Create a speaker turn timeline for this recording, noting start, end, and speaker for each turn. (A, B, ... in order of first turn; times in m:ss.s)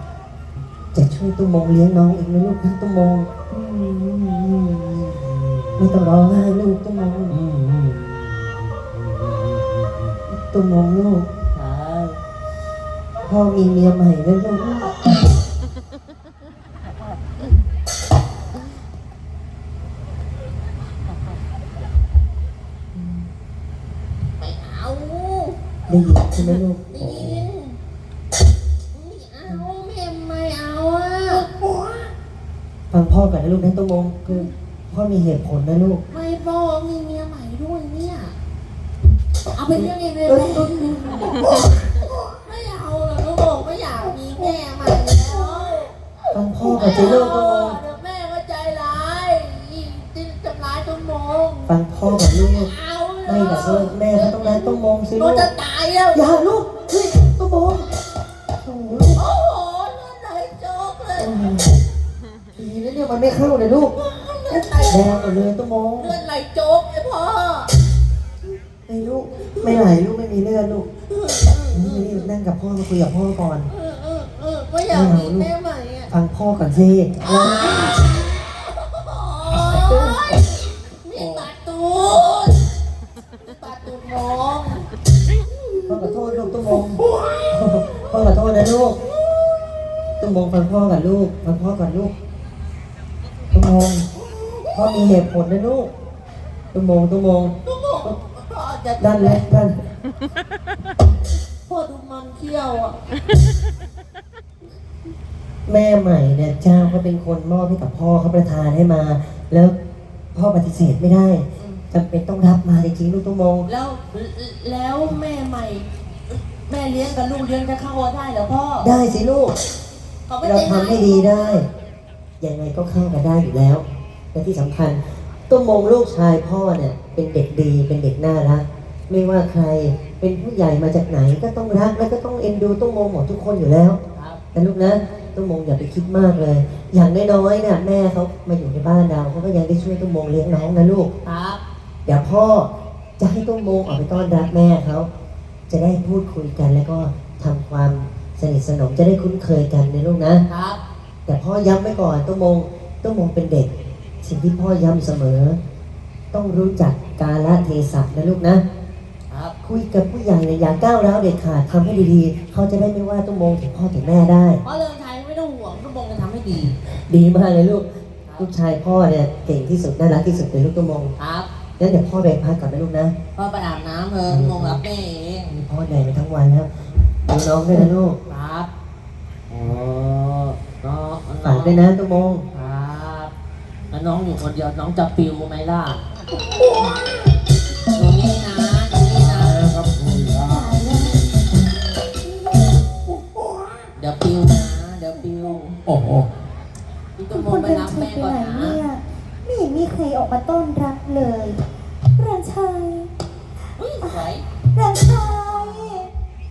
0:00.9-0:03.3 A
0:03.5-0:06.0 B
0:05.8-0:07.4 A
0:07.3-0:09.9 B
0:10.3-0:11.3 A
0:11.5-0:12.2 B
0:13.2-0:14.9 A
0:24.4-0:25.6 B
0:25.9-0:27.4 A
0:26.4-0:27.8 B
0:28.9-0:31.5 B
0:32.9-0:36.0 A
0:36.1-0:38.3 B
0:39.5-0:45.9 B
0:39.7-0:41.3 A
0:46.3-0:47.8 A
0:46.6-0:56.4 B
0:51.7-0:52.7 A
0:53.2-0:55.5 A
0:56.1-0:57.9 A
0:58.6-0:59.2 A
0:59.1-1:01.4 B
1:01.2-1:01.7 A
1:02.6-1:03.9 A
1:03.9-1:05.3 B
1:04.9-1:06.1 A
1:06.0-1:07.7 B
1:08.9-1:10.8 A
1:09.4-1:09.8 B
1:11.1-1:12.3 B
1:11.7-1:13.7 A
1:13.7-1:16.1 B
1:14.9-1:15.5 A
1:16.1-1:17.9 A
1:17.2-1:22.6 B
1:19.6-1:20.4 A
1:21.2-1:21.5 A
1:23.4-1:24.8 B
1:25.5-1:26.0 C
1:25.9-1:29.0 A
1:29.0-1:29.9 B
1:30.2-1:32.1 A
1:33.5-1:34.1 A
1:34.3-1:35.0 B
1:34.7-1:35.9 A
1:36.7-1:37.5 A
1:37.6-1:39.4 B
1:39.0-1:39.8 A
1:41.7-1:43.0 B
1:45.6-1:49.7 A
1:50.3-1:53.7 A
1:51.6-1:51.8 B
1:53.6-1:58.9 B
1:58.8-1:59.6 A
2:00.3-2:01.6 B
2:00.4-2:01.7 A
2:02.4-2:14.0 A
2:14.1-2:14.4 B
2:14.5-2:21.1 A
2:21.2-2:21.6 B
2:22.0-2:25.1 A
2:25.7-2:30.4 A
2:30.5-2:30.8 B
2:31.2-2:33.7 A
2:34.2-2:35.6 A
2:36.3-2:38.6 A
2:39.3-2:39.5 B
2:39.6-2:44.6 A
2:44.6-2:46.7 B
2:47.1-2:47.9 A
2:48.4-2:51.1 A
2:51.2-2:51.5 B
2:51.8-2:53.1 A
2:53.4-2:55.5 B
2:54.3-2:54.8 A
2:55.5-2:56.7 A
2:57.2-2:58.2 A
2:58.3-2:58.7 B
2:59.5-3:01.8 B
3:01.4-3:02.4 A
3:02.5-3:03.3 B
3:03.9-3:06.0 B
3:07.9-3:09.7 B
3:09.1-3:10.7 D
3:10.4-3:11.2 C
3:14.0-3:15.8 B
3:15.8-3:16.3 D
3:17.2-3:18.8 B
3:17.3-3:21.6 C
3:22.2-3:23.1 C
3:23.8-3:24.4 B
3:24.7-3:26.1 C
3:25.1-3:26.0 B